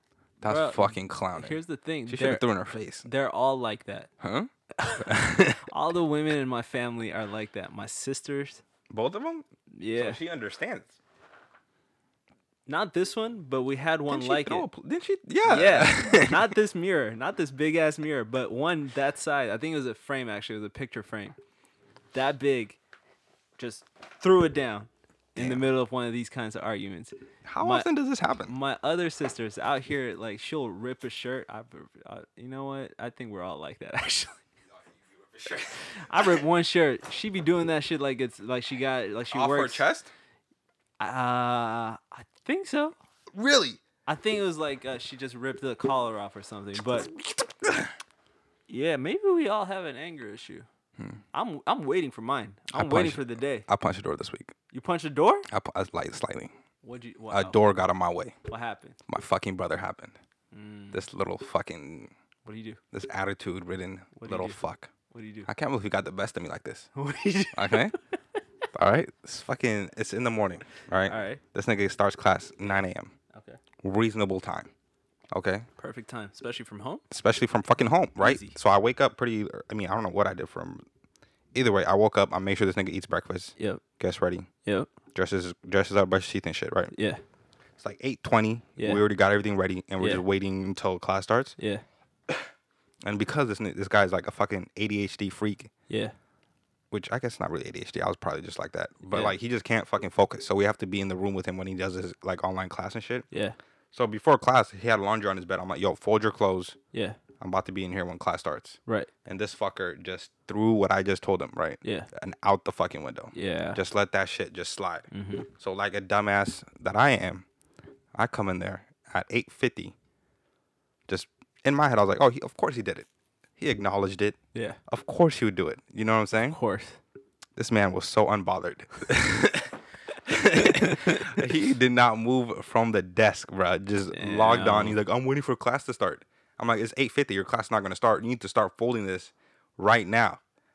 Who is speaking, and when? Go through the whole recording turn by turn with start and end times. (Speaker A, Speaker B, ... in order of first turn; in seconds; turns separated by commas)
Speaker A: 0.4-2.5, Speaker B: 0.4-3.1, Speaker A: 3.0-4.1, Speaker B: 4.2-5.7, Speaker A: 4.8-8.6, Speaker B: 8.9-11.0, Speaker A: 9.7-10.2, Speaker A: 12.7-14.7, Speaker B: 14.1-16.5, Speaker A: 15.4-21.4, Speaker A: 22.1-22.8, Speaker A: 23.6-27.9, Speaker B: 25.4-25.6, Speaker B: 27.4-28.5, Speaker A: 28.4-34.4, Speaker B: 35.3-36.4, Speaker A: 35.8-39.9, Speaker B: 39.3-40.1, Speaker A: 41.0-43.0, Speaker B: 43.3-43.8, Speaker A: 44.1-47.1, Speaker B: 47.4-47.9, Speaker A: 48.7-50.7, Speaker A: 51.3-53.7, Speaker B: 52.7-54.5, Speaker A: 54.7-55.5, Speaker B: 55.5-56.5, Speaker A: 56.8-57.6, Speaker B: 57.3-58.4, Speaker A: 58.5-59.0, Speaker B: 59.1-60.2, Speaker A: 60.5-61.0, Speaker B: 60.9-62.1, Speaker A: 62.5-62.8, Speaker B: 62.9-64.9, Speaker A: 64.2-65.5, Speaker B: 65.5-66.9, Speaker A: 67.0-68.0, Speaker B: 67.5-67.9, Speaker B: 68.7-73.1, Speaker A: 71.0-71.4, Speaker A: 73.3-73.6, Speaker B: 73.8-74.7, Speaker B: 75.3-75.7, Speaker A: 75.8-77.0, Speaker B: 77.1-80.8, Speaker A: 78.2-78.6, Speaker B: 81.5-84.5, Speaker A: 83.6-83.8, Speaker A: 84.7-84.9, Speaker B: 85.2-86.9, Speaker A: 86.9-87.2, Speaker B: 87.8-91.6, Speaker A: 88.8-89.0, Speaker A: 90.0-90.2, Speaker A: 91.6-91.8, Speaker B: 93.0-95.7, Speaker A: 95.9-96.2, Speaker B: 96.9-103.3, Speaker A: 99.1-99.3, Speaker A: 103.3-103.6, Speaker B: 103.9-106.8, Speaker A: 106.9-107.2, Speaker B: 107.4-117.5, Speaker A: 111.8-112.1, Speaker A: 113.3-113.8, Speaker A: 115.1-115.5, Speaker B: 118.1-120.0, Speaker B: 121.1-123.1, Speaker B: 123.6-126.6, Speaker A: 124.5-124.8, Speaker A: 126.5-127.0, Speaker B: 127.6-140.4, Speaker A: 130.5-131.4, Speaker A: 134.1-135.0